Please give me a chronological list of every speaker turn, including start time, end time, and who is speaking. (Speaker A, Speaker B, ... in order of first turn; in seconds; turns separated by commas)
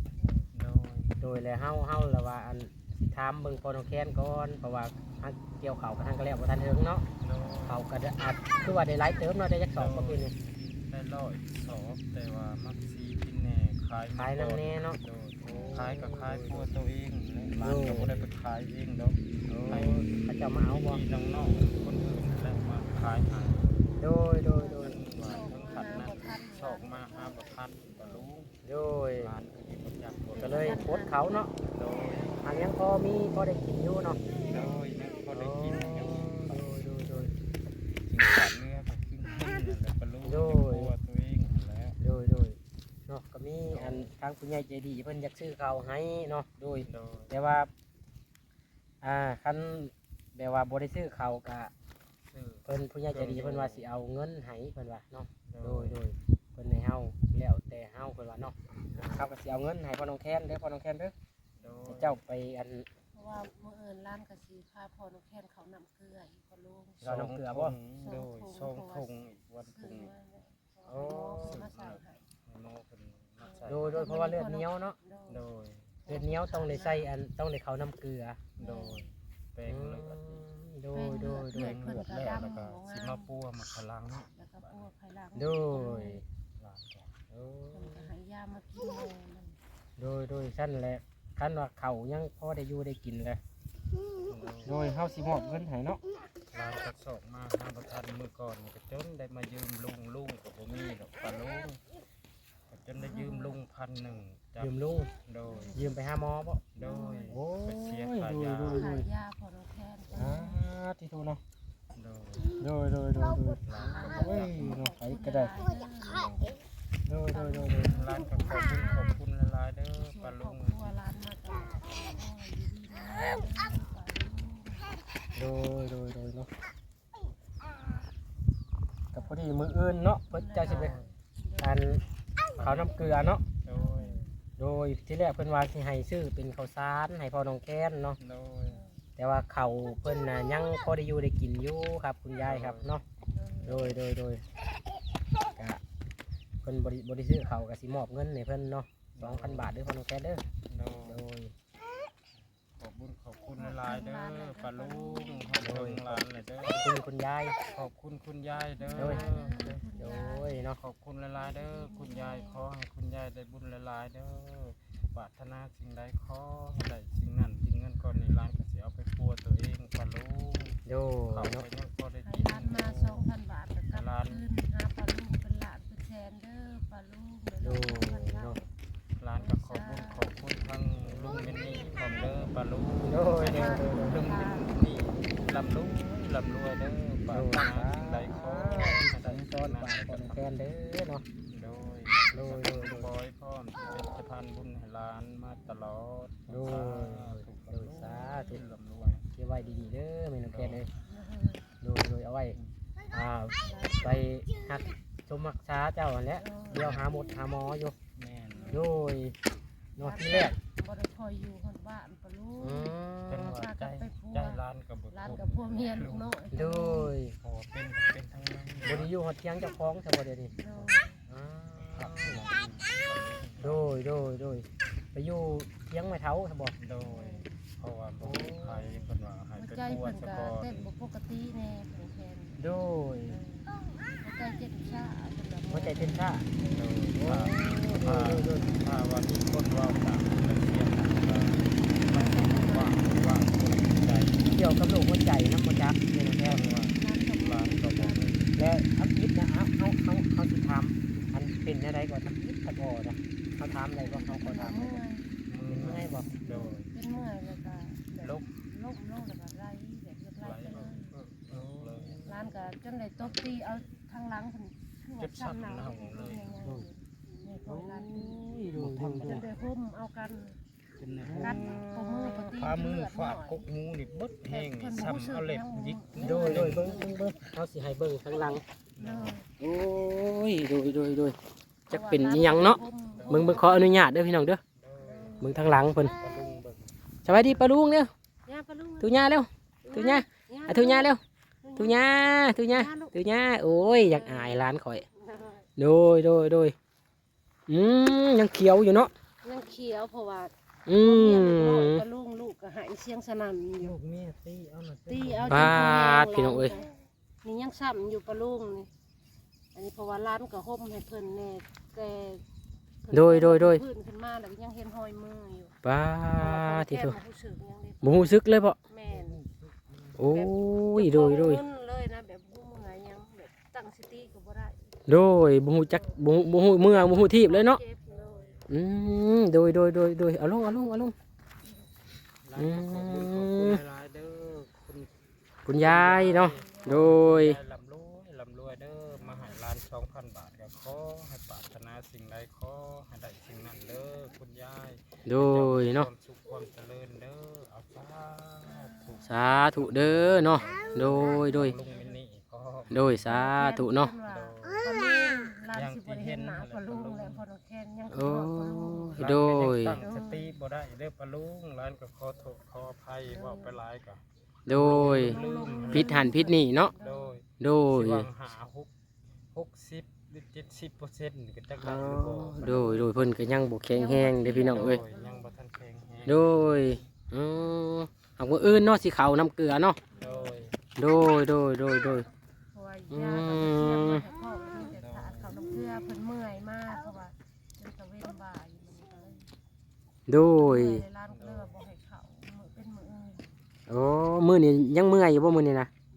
Speaker A: 0.5-1.3, Speaker B: 1.2-7.0, Speaker A: 7.2-7.8, Speaker B: 7.7-10.3, Speaker A: 9.7-20.1, Speaker B: 14.2-16.7, Speaker C: 15.5-15.9, Speaker B: 17.6-18.3, Speaker B: 19.5-21.0, Speaker A: 20.6-23.9, Speaker B: 24.0-25.0, Speaker A: 24.7-28.6, Speaker C: 25.2-27.3, Speaker C: 27.9-28.3, Speaker B: 28.6-29.3, Speaker A: 29.2-30.8, Speaker C: 30.3-31.2, Speaker B: 30.3-31.5, Speaker A: 31.7-32.6, Speaker B: 32.4-34.2, Speaker A: 34.4-36.7, Speaker B: 35.3-37.3, Speaker A: 38.0-42.0, Speaker B: 40.2-40.9, Speaker B: 42.0-47.7, Speaker A: 43.7-44.1, Speaker A: 46.8-47.3, Speaker B: 49.0-51.7, Speaker A: 52.3-53.9, Speaker B: 52.6-61.1, Speaker A: 55.5-56.0, Speaker A: 58.9-59.3, Speaker A: 61.6-62.2, Speaker B: 61.9-62.9, Speaker C: 63.1-67.0, Speaker A: 67.0-70.1, Speaker B: 67.0-67.8, Speaker C: 68.0-72.2, Speaker B: 70.9-71.6, Speaker A: 71.4-74.2, Speaker C: 73.5-75.4, Speaker B: 73.7-75.0, Speaker A: 75.3-76.0, Speaker C: 76.0-77.1, Speaker B: 76.1-78.4, Speaker C: 78.6-79.0, Speaker A: 78.6-80.5, Speaker B: 79.7-82.4, Speaker C: 80.9-83.3, Speaker A: 81.4-84.8, Speaker C: 84.3-86.2, Speaker B: 85.3-86.2, Speaker A: 86.6-87.2, Speaker B: 87.3-88.1, Speaker C: 87.7-89.6, Speaker B: 90.0-93.4, Speaker A: 94.2-94.8, Speaker B: 94.6-96.0, Speaker A: 96.5-101.8, Speaker A: 102.7-105.8, Speaker C: 103.0-103.6, Speaker B: 104.6-105.1, Speaker C: 105.5-105.9, Speaker B: 105.7-106.6, Speaker A: 106.7-108.9, Speaker C: 106.8-107.3, Speaker B: 107.3-109.1, Speaker C: 108.7-110.6, Speaker B: 110.1-111.4, Speaker A: 111.9-112.6, Speaker B: 112.6-115.6, Speaker A: 113.6-114.8, Speaker C: 113.8-116.6, Speaker B: 117.0-118.0, Speaker C: 117.3-119.2, Speaker A: 117.7-121.0, Speaker C: 120.0-124.9, Speaker B: 125.3-126.5, Speaker B: 129.1-131.0, Speaker C: 130.3-131.8, Speaker A: 130.6-131.1, Speaker B: 131.6-132.0, Speaker B: 132.6-133.4, Speaker A: 132.6-134.2, Speaker C: 133.7-134.3, Speaker B: 134.6-138.2, Speaker A: 138.2-138.8, Speaker C: 138.7-139.0, Speaker B: 139.2-143.0, Speaker A: 142.4-142.9, Speaker C: 143.3-143.9, Speaker B: 143.6-144.4, Speaker A: 143.6-143.9, Speaker B: 145.5-145.8, Speaker B: 146.6-150.4, Speaker A: 149.2-149.7, Speaker A: 150.7-151.2, Speaker B: 151.1-151.5, Speaker A: 152.8-156.9, Speaker C: 153.5-155.6, Speaker B: 155.6-157.6, Speaker A: 157.7-159.8, Speaker C: 158.8-160.6, Speaker B: 158.9-159.2, Speaker B: 160.0-160.8, Speaker A: 160.8-170.8, Speaker C: 161.4-162.7, Speaker B: 170.8-171.6, Speaker A: 171.3-173.3, Speaker C: 172.2-178.7, Speaker A: 173.9-174.4, Speaker B: 177.6-178.6, Speaker A: 179.2-190.5, Speaker C: 179.4-180.3, Speaker B: 183.0-184.3, Speaker C: 183.3-184.8, Speaker B: 187.3-191.2, Speaker A: 191.5-199.3, Speaker B: 192.3-193.1, Speaker B: 196.5-198.6, Speaker B: 199.3-200.9, Speaker A: 200.5-200.8, Speaker C: 201.0-201.6, Speaker B: 201.8-202.6, Speaker B: 203.1-207.9, Speaker C: 203.6-204.2, Speaker C: 206.4-206.9, Speaker A: 206.7-207.1, Speaker A: 208.2-208.8, Speaker C: 208.5-208.9, Speaker B: 208.7-209.4, Speaker B: 210.0-210.6, Speaker C: 210.0-213.0, Speaker B: 212.6-213.6, Speaker A: 213.3-216.3, Speaker C: 213.5-214.6, Speaker C: 215.1-217.1, Speaker B: 216.5-217.3, Speaker A: 217.4-219.1, Speaker B: 218.8-220.5, Speaker C: 220.6-221.2, Speaker B: 221.3-222.4, Speaker A: 221.9-223.9, Speaker B: 223.6-226.7, Speaker A: 226.8-230.9, Speaker C: 227.0-227.5, Speaker B: 228.2-228.9, Speaker C: 229.6-232.7, Speaker B: 232.6-233.4, Speaker C: 233.3-236.8, Speaker B: 235.7-236.5, Speaker A: 236.7-244.8, Speaker B: 237.1-238.7, Speaker C: 242.0-243.0, Speaker B: 244.5-246.6, Speaker A: 246.4-248.5, Speaker C: 246.9-248.3, Speaker B: 248.5-255.0, Speaker C: 254.3-255.3, Speaker A: 255.5-256.9, Speaker B: 255.7-256.3, Speaker C: 256.4-261.1, Speaker A: 258.2-258.5, Speaker A: 260.4-262.3, Speaker B: 261.5-262.4, Speaker C: 262.2-268.4, Speaker A: 263.1-263.7, Speaker A: 265.2-266.8, Speaker B: 266.6-266.9, Speaker B: 267.6-269.5, Speaker A: 268.6-269.5, Speaker C: 269.2-270.6, Speaker A: 271.0-271.9, Speaker B: 271.2-272.5, Speaker C: 271.4-273.6, Speaker A: 272.5-277.0, Speaker C: 274.5-277.2, Speaker B: 276.2-278.6, Speaker A: 279.0-279.4, Speaker C: 279.0-279.4, Speaker B: 279.6-281.4, Speaker B: 281.9-284.6, Speaker C: 281.9-283.9, Speaker A: 283.1-283.8, Speaker A: 284.8-286.9, Speaker C: 285.0-285.5, Speaker B: 285.4-286.2, Speaker B: 287.2-288.1, Speaker C: 288.4-289.2, Speaker B: 289.0-291.2, Speaker C: 289.8-291.1, Speaker C: 291.6-292.0, Speaker B: 291.8-295.0, Speaker C: 292.6-294.6, Speaker C: 295.1-295.7, Speaker B: 295.8-296.7, Speaker B: 297.7-299.1, Speaker C: 299.4-304.0, Speaker B: 300.9-302.0, Speaker A: 303.8-306.0, Speaker C: 305.1-308.9, Speaker B: 305.5-306.8, Speaker C: 309.7-312.4, Speaker C: 313.1-315.7, Speaker B: 313.1-313.8, Speaker B: 315.8-317.2, Speaker C: 316.3-319.4, Speaker B: 318.0-318.8, Speaker A: 319.1-320.3, Speaker B: 320.1-321.6, Speaker C: 320.2-324.9, Speaker B: 325.1-327.8, Speaker C: 326.8-328.6, Speaker A: 328.1-328.7, Speaker B: 328.7-331.1, Speaker A: 332.4-335.1, Speaker B: 332.6-333.8, Speaker B: 335.6-337.6, Speaker A: 335.7-353.3, Speaker C: 336.5-337.0, Speaker B: 345.2-346.1, Speaker B: 349.2-351.8, Speaker B: 352.9-354.1, Speaker C: 353.3-359.3, Speaker A: 354.2-354.9, Speaker A: 355.7-357.4, Speaker B: 358.1-360.0, Speaker A: 359.1-368.9, Speaker C: 360.0-360.5, Speaker C: 363.3-363.7, Speaker B: 364.7-366.9, Speaker C: 364.7-367.4, Speaker B: 367.6-368.3, Speaker A: 369.5-373.1, Speaker B: 371.8-375.0, Speaker C: 373.9-375.5, Speaker A: 374.5-377.0, Speaker B: 376.2-380.0, Speaker C: 380.2-380.6, Speaker A: 380.2-380.8, Speaker B: 380.9-382.3, Speaker C: 382.7-389.5, Speaker B: 383.1-384.2, Speaker A: 384.7-385.6, Speaker B: 390.3-391.0, Speaker C: 390.5-393.5, Speaker A: 391.3-391.8, Speaker B: 393.9-395.9